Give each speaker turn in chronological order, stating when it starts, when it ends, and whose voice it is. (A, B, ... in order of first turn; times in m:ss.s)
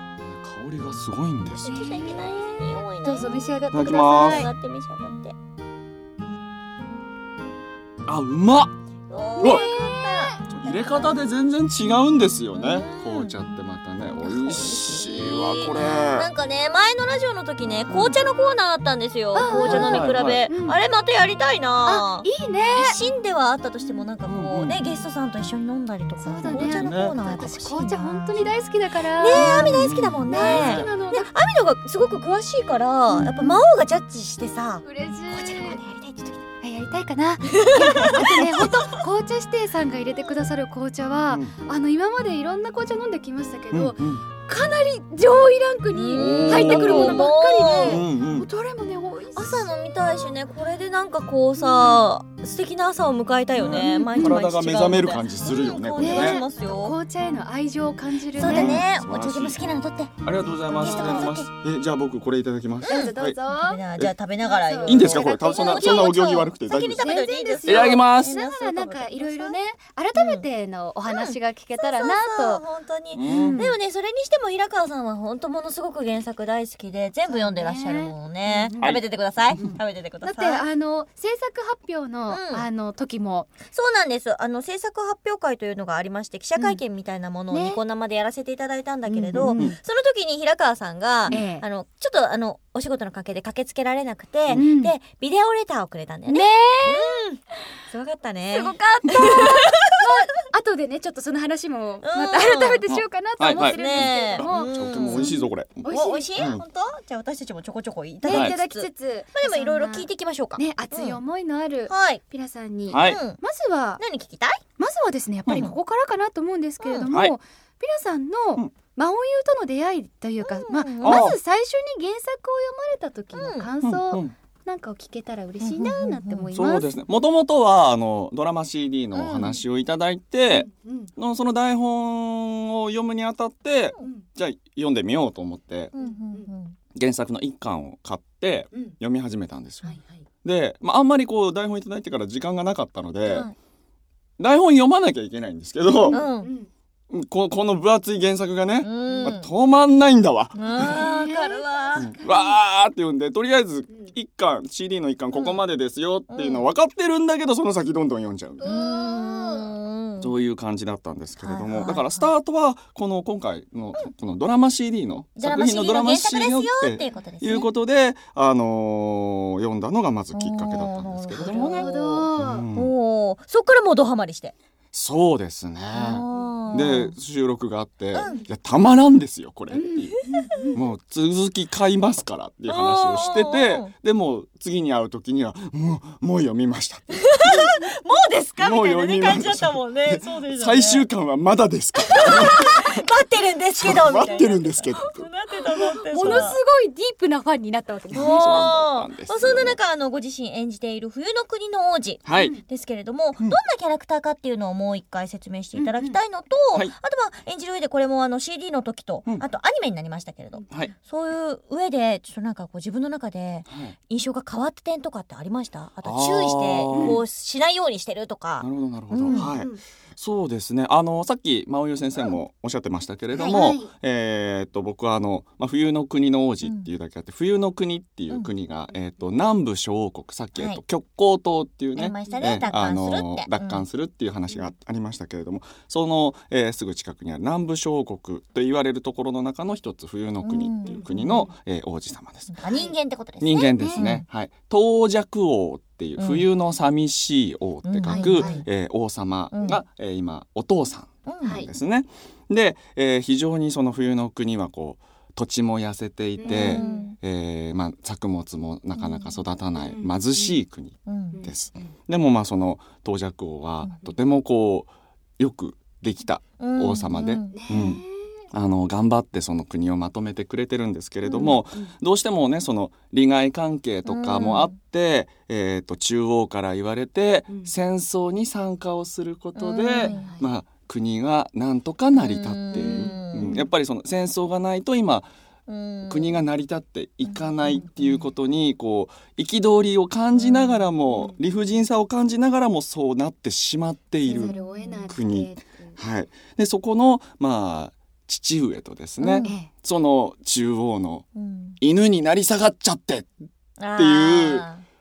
0:00.2-0:01.7 A
0:01.6-0:05.3 B
0:01.6-0:04.5 C
0:03.7-0:04.5 A
0:08.1-0:08.7 A
0:09.1-0:11.2 B
0:09.4-0:10.4 C
0:10.4-0:16.3 A
0:12.5-0:13.4 B
0:14.2-0:28.5 B
0:19.3-0:20.8 C
0:19.5-0:20.4 A
0:21.8-0:23.0 C
0:24.3-0:24.8 A
0:26.2-0:31.3 C
0:26.5-0:27.2 A
0:29.2-0:36.4 B
0:29.3-0:30.9 A
0:33.1-0:33.6 C
0:34.8-0:35.8 C
0:36.6-0:49.7 C
0:37.6-0:38.7 B
0:43.7-0:44.2 A
0:45.9-0:48.0 B
0:46.1-0:48.5 A
0:49.4-0:57.0 B
0:53.6-0:56.4 A
0:53.6-0:54.4 C
0:56.0-0:58.8 C
0:58.4-1:01.5 B
0:58.4-0:59.6 A
1:00.2-1:03.4 A
1:00.7-1:01.3 C
1:02.8-1:09.6 B
1:02.8-1:03.8 C
1:04.4-1:12.6 C
1:04.8-1:07.1 A
1:07.6-1:08.3 A
1:10.2-1:10.4 B
1:11.0-1:20.6 B
1:13.1-1:13.6 A
1:13.2-1:13.7 C
1:17.3-1:18.9 C
1:18.8-1:19.8 A
1:19.5-1:23.5 C
1:22.3-1:22.6 B
1:23.7-1:40.1 B
1:27.5-1:27.8 C
1:29.1-1:29.7 C
1:31.3-1:31.6 C
1:34.5-1:34.9 C
1:36.3-1:37.2 C
1:38.5-1:46.4 C
1:42.0-1:42.8 B
1:42.9-1:45.8 A
1:43.5-1:45.3 B
1:45.9-1:51.2 B
1:46.4-1:46.6 A
1:48.2-1:54.0 C
1:48.3-1:48.6 A
1:51.9-1:52.2 B
1:52.9-1:53.2 A
1:53.0-1:53.4 B
1:54.0-1:54.6 B
1:54.8-2:06.9 C
1:55.5-1:55.7 B
1:56.8-1:57.1 B
1:57.1-1:57.3 A
2:00.4-2:01.3 B
2:01.0-2:01.4 A
2:03.3-2:03.7 B
2:03.8-2:04.3 A
2:05.6-2:06.5 B
2:06.5-2:15.9 A
2:09.1-2:09.6 B
2:10.5-2:11.1 C
2:14.0-2:14.2 C
2:15.9-2:16.8 B
2:16.0-2:16.5 C
2:16.9-2:23.5 A
2:19.8-2:20.2 C
2:23.3-2:23.5 B
2:24.4-2:26.2 A
2:26.0-2:26.7 C
2:26.1-2:26.5 B
2:27.1-2:38.7 A
2:28.8-2:29.5 B
2:29.0-2:29.3 C
2:30.5-2:32.5 B
2:35.3-2:35.6 B
2:36.3-2:36.7 B
2:38.6-2:39.7 C
2:38.6-2:40.3 B
2:40.2-2:52.9 A
2:41.4-2:42.3 B
2:45.4-2:47.7 B
2:50.3-2:54.5 B
2:51.4-2:52.6 C
2:54.9-3:00.2 A
2:55.9-2:57.1 B
2:58.1-2:58.4 B
2:59.7-3:00.8 C
3:00.7-3:07.7 A
3:02.6-3:03.9 B
3:07.3-3:11.1 B
3:08.6-3:13.0 A
3:12.1-3:16.6 B
3:13.8-3:15.2 A
3:16.1-3:18.4 C
3:16.2-3:16.5 A
3:18.1-3:39.6 B
3:18.1-3:19.8 A
3:22.2-3:22.6 A
3:22.3-3:22.6 C
3:25.8-3:26.2 C
3:30.7-3:30.9 A
3:33.7-3:33.9 A
3:36.0-3:37.2 A
3:36.9-3:37.2 C
3:38.6-4:02.5 A
3:39.2-3:39.8 C
3:43.3-3:43.8 B
3:43.4-3:43.9 C
3:50.5-3:50.8 B
3:52.0-3:53.8 B
3:52.2-3:52.8 C
4:00.4-4:01.5 B
4:00.8-4:01.5 C
4:02.5-4:04.2 B
4:02.7-4:02.9 C
4:03.4-4:45.3 A
4:06.2-4:06.4 B
4:07.8-4:08.6 B
4:08.0-4:08.6 C
4:09.5-4:09.8 B
4:11.2-4:11.6 B
4:11.4-4:11.7 C
4:16.4-4:17.1 C
4:16.4-4:17.2 B
4:19.0-4:19.4 B
4:19.8-4:20.6 C
4:21.1-4:21.4 B
4:21.3-4:21.9 C
4:26.6-4:27.6 B
4:27.5-4:28.2 C
4:31.3-4:31.9 C
4:31.3-4:31.6 B
4:34.0-4:34.7 B
4:39.6-4:40.3 B
4:40.0-4:40.4 C
4:42.1-4:43.6 B
4:42.8-4:43.6 C
4:45.7-4:46.4 B
4:46.1-5:01.2 A
4:51.1-4:51.4 C
4:54.3-4:56.0 C
4:54.3-4:55.1 B
4:59.2-4:59.5 B
4:59.4-4:59.7 C
5:01.3-5:01.8 B
5:01.8-5:04.6 A
5:03.8-5:04.8 B